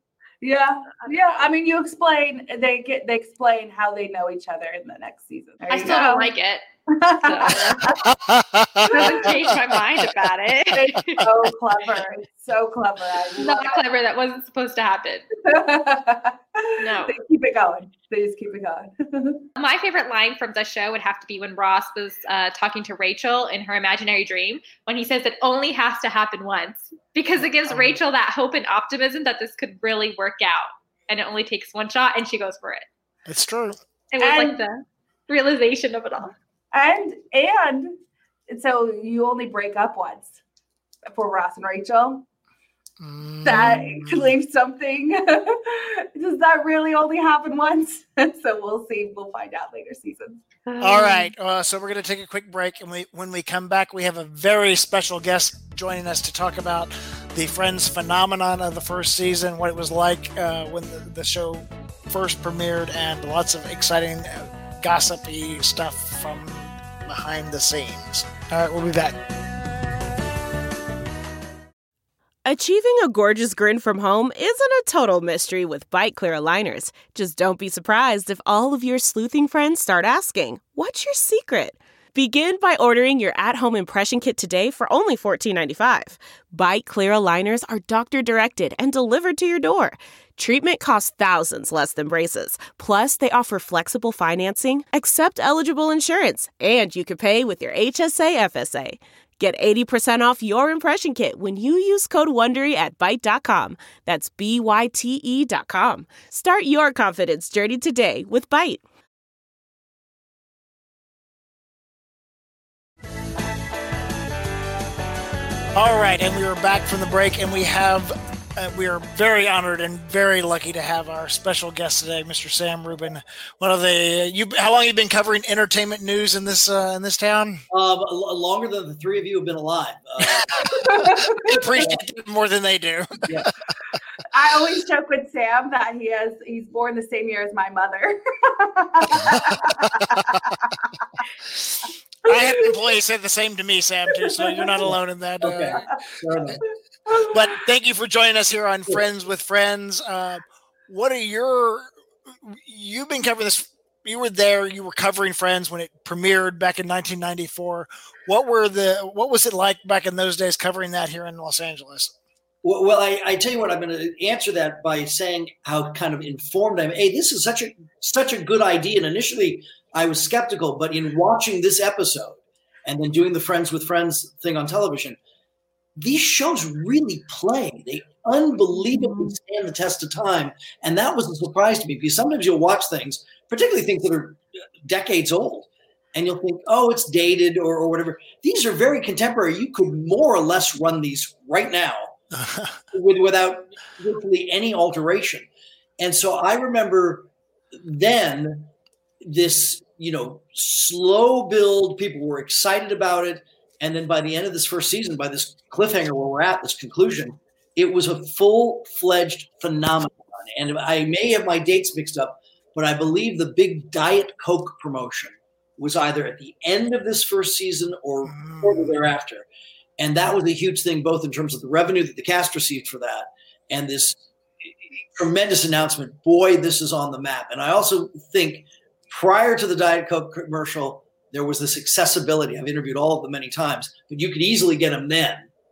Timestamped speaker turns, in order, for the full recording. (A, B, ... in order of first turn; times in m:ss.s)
0:00.4-0:06.3 A
0:01.0-0:01.4 B
0:05.7-0:06.6 B
0:06.9-0:08.1 A
0:07.2-0:07.9 B
0:08.0-0:09.4 C
0:08.9-0:09.4 A
0:08.9-0:11.2 B
0:10.7-0:13.8 A
0:13.4-0:15.2 B
0:15.4-0:19.4 A
0:16.8-0:17.1 B
0:19.6-0:32.8 B
0:27.7-0:28.0 C
0:33.2-0:33.8 C
0:34.1-0:36.3 B
0:34.2-0:34.6 A
0:36.7-0:37.9 A
0:38.5-0:40.4 A
0:41.1-0:42.2 A
0:43.0-0:44.3 C
0:43.4-0:50.4 A
0:50.7-0:51.3 B
0:50.8-1:09.2 C
1:12.4-1:48.8 D
1:55.7-2:07.6 C
2:07.7-2:10.8 E
2:10.7-2:11.5 A
2:11.4-2:13.5 C
2:11.5-2:12.0 E
2:14.3-2:20.8 A
2:19.1-2:19.8 C
2:22.2-2:25.9 C
2:22.3-2:22.6 A
2:24.1-2:24.8 A
2:25.4-2:26.6 E
2:27.1-2:27.3 A
2:27.2-2:31.9 C
2:32.4-2:42.1 C
2:42.6-2:55.2 E
2:56.0-3:12.2 E
2:58.8-2:59.4 A
3:12.4-3:12.8 C
3:12.9-3:15.5 E
3:16.0-3:18.7 E
3:19.2-3:39.4 E
3:38.2-3:38.9 C
3:40.0-3:44.2 E
3:45.0-3:55.5 E